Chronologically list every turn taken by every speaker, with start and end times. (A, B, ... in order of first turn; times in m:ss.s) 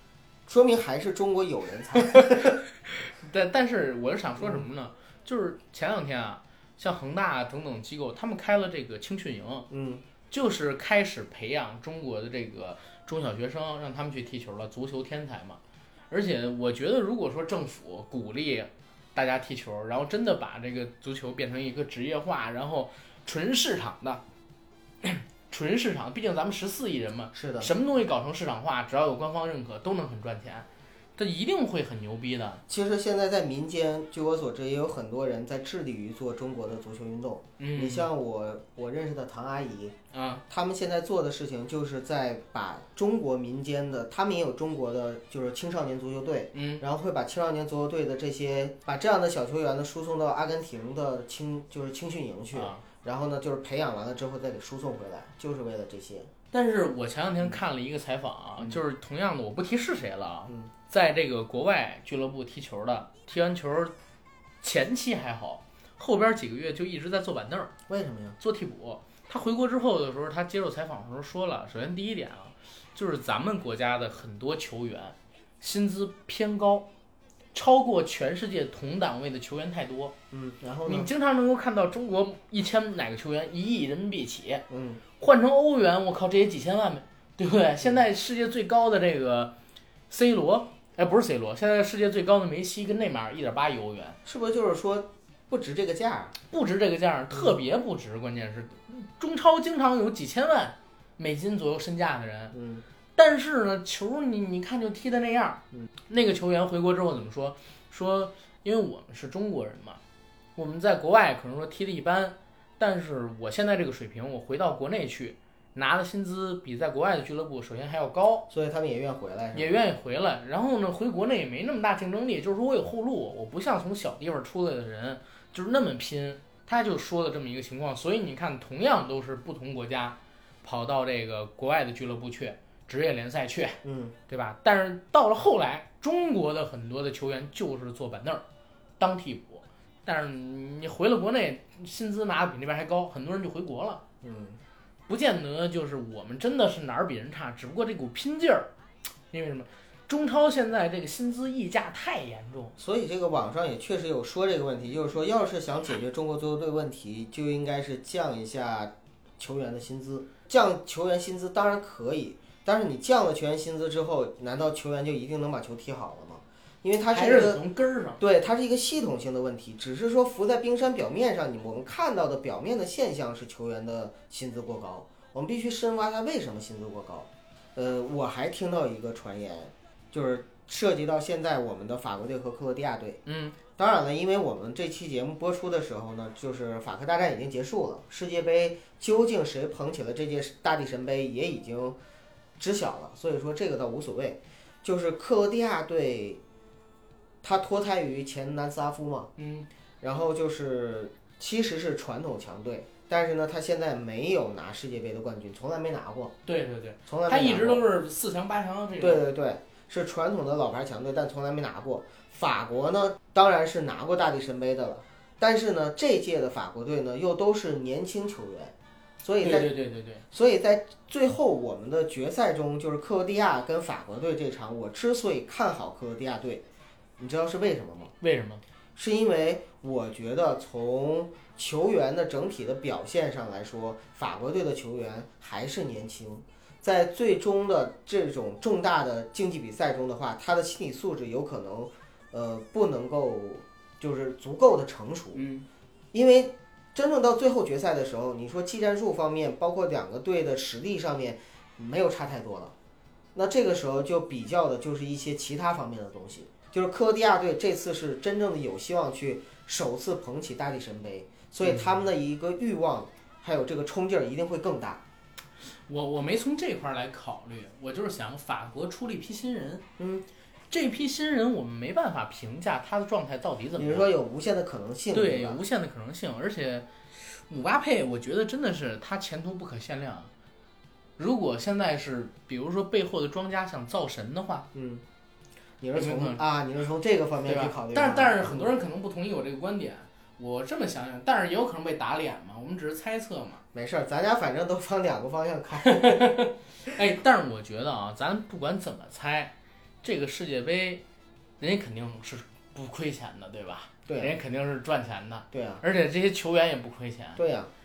0:00.4-0:02.6 A
0:02.8-0:09.7 B
0:09.7-0:10.0 A
0:10.3-0:24.2 B
0:25.0-0:32.6 B
0:27.3-0:27.7 A
0:32.7-0:40.0 A
0:37.6-0:38.1 B
0:40.1-0:40.4 B
0:40.5-0:56.3 A
0:46.5-0:46.8 B
0:52.5-0:52.8 B
0:56.5-1:03.9 B
1:04.6-1:07.7 B
1:07.9-1:08.4 A
1:08.4-1:16.9 B
1:17.5-1:20.1 B
1:20.3-1:21.1 A
1:20.8-1:24.6 B
1:24.7-1:25.0 A
1:25.2-1:29.5 B
1:30.1-1:34.2 B
1:34.2-1:36.3 A
1:36.5-1:42.6 B
1:42.5-1:42.8 A
1:43.2-1:50.0 B
1:50.6-1:58.5 B
1:58.5-1:59.8 A
1:59.5-2:18.4 B
2:13.8-2:14.1 A
2:19.0-2:24.0 B
2:24.2-2:24.6 A
2:25.1-2:28.7 B
2:29.3-2:32.7 B
2:32.8-2:47.6 A
2:47.1-2:48.2 B
2:48.2-3:03.2 A
3:03.2-3:03.6 B
3:03.7-3:12.0 A
3:12.6-3:16.4 A
3:17.4-3:19.3 A
3:19.4-3:19.7 B
3:20.0-3:26.4 A
3:26.4-3:29.2 B
3:27.1-3:27.8 A
3:29.0-3:39.7 A
3:39.4-3:40.2 B
3:40.3-3:46.6 A
3:47.2-3:48.1 A
3:48.2-3:48.6 B
3:49.0-4:05.4 A
4:05.3-4:05.6 B
4:06.1-4:12.7 A
4:13.3-4:25.0 A
4:25.9-4:29.8 B
4:30.0-4:30.2 A
4:30.7-4:34.1 B
4:33.8-4:35.6 A
4:35.1-4:40.3 B
4:41.2-4:44.7 B
4:44.7-4:45.0 A
4:45.8-4:48.7 A
4:46.0-4:46.4 B
4:47.4-4:53.6 B
4:53.7-4:56.4 A
4:55.8-5:01.0 B
5:01.6-5:07.4 B
5:04.0-5:04.3 A
5:05.5-5:05.8 A
5:07.4-5:07.7 A